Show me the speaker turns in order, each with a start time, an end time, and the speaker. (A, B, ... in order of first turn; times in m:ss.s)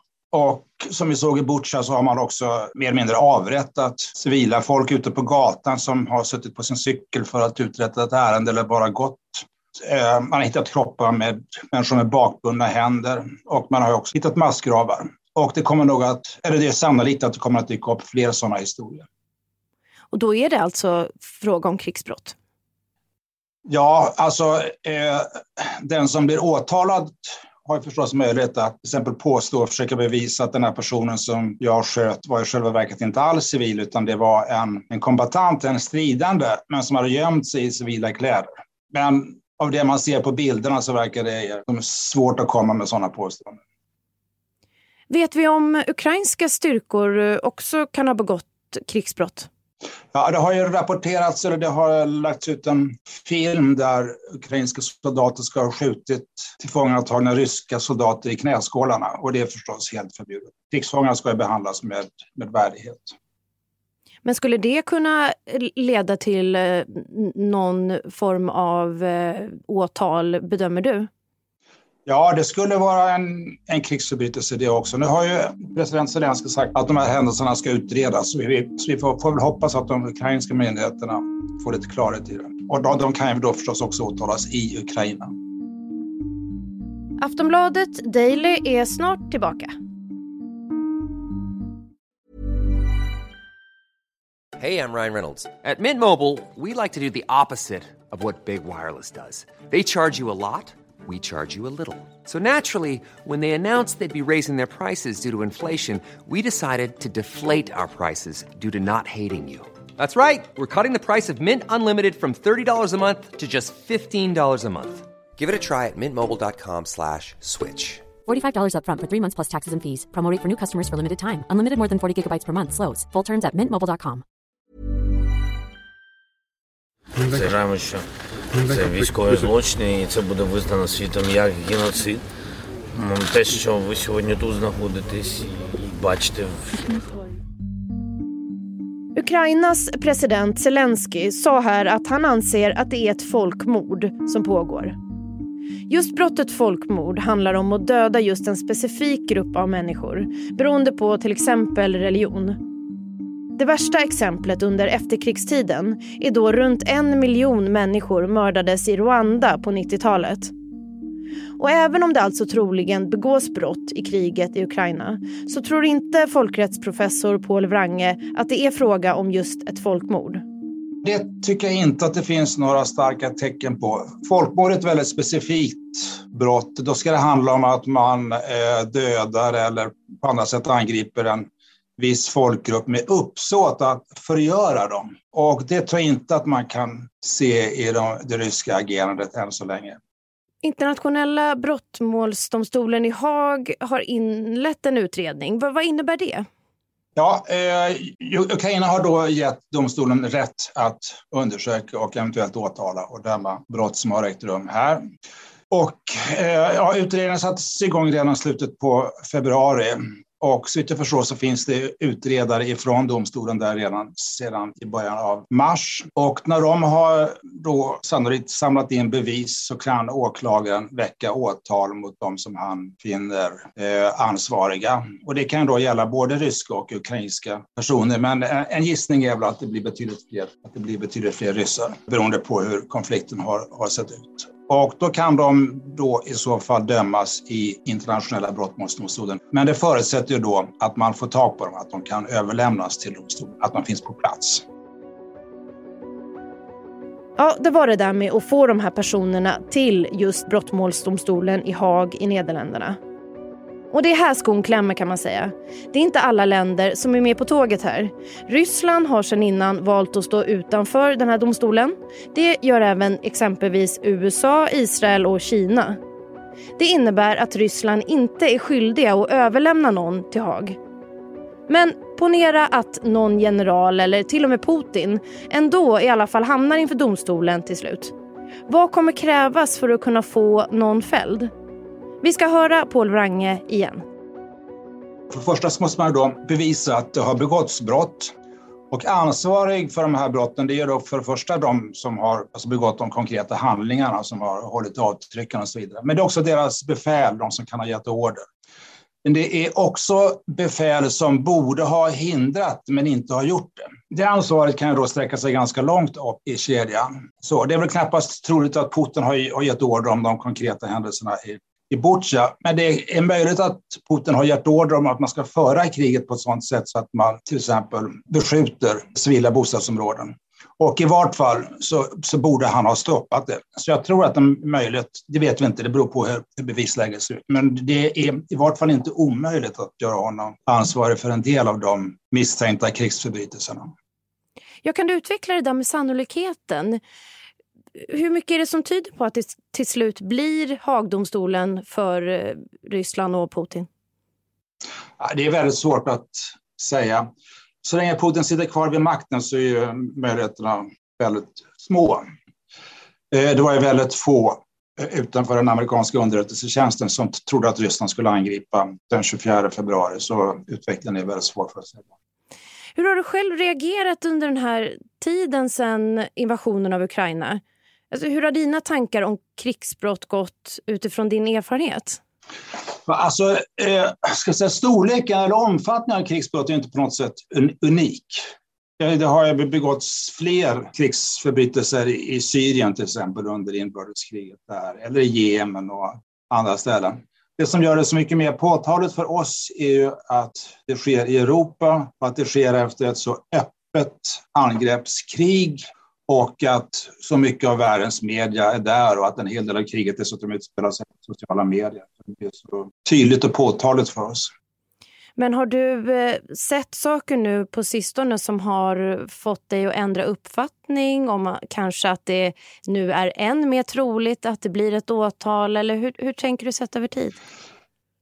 0:00.3-0:19.1 A
0:20.1-0:22.4 B
0:23.7-0:43.6 A
0:45.1-0:49.5 B
0:50.1-1:03.2 A
1:04.2-1:11.1 B
1:12.1-1:25.3 A
1:27.2-1:29.7 B
1:34.6-1:58.1 C
1:58.3-2:04.2 D
2:07.2-2:12.3 E
2:12.9-2:17.0 E
2:19.2-2:25.0 B
2:25.9-2:32.6 B
2:33.6-2:40.5 B
2:41.6-2:50.4 B
2:51.0-3:01.5 A
3:02.0-3:10.0 A
3:10.6-3:16.4 B
3:17.2-3:25.0 A
3:25.7-4:04.6 A
4:07.4-4:13.0 B
4:13.9-4:26.0 B
4:26.8-4:30.8 B
4:31.7-4:38.1 B
4:38.7-4:41.5 B
4:42.2-4:44.0 B
4:45.3-4:48.3 A
4:48.9-4:58.4 A
4:59.2-5:33.9 A
5:34.8-5:37.0 B
5:38.0-5:43.9 B
5:45.2-5:47.3 A
5:47.8-5:52.2 A
5:53.3-6:02.0 A
6:03.0-6:12.2 B
6:13.1-6:18.4 A
6:19.0-6:44.5 A
6:45.4-6:57.4 B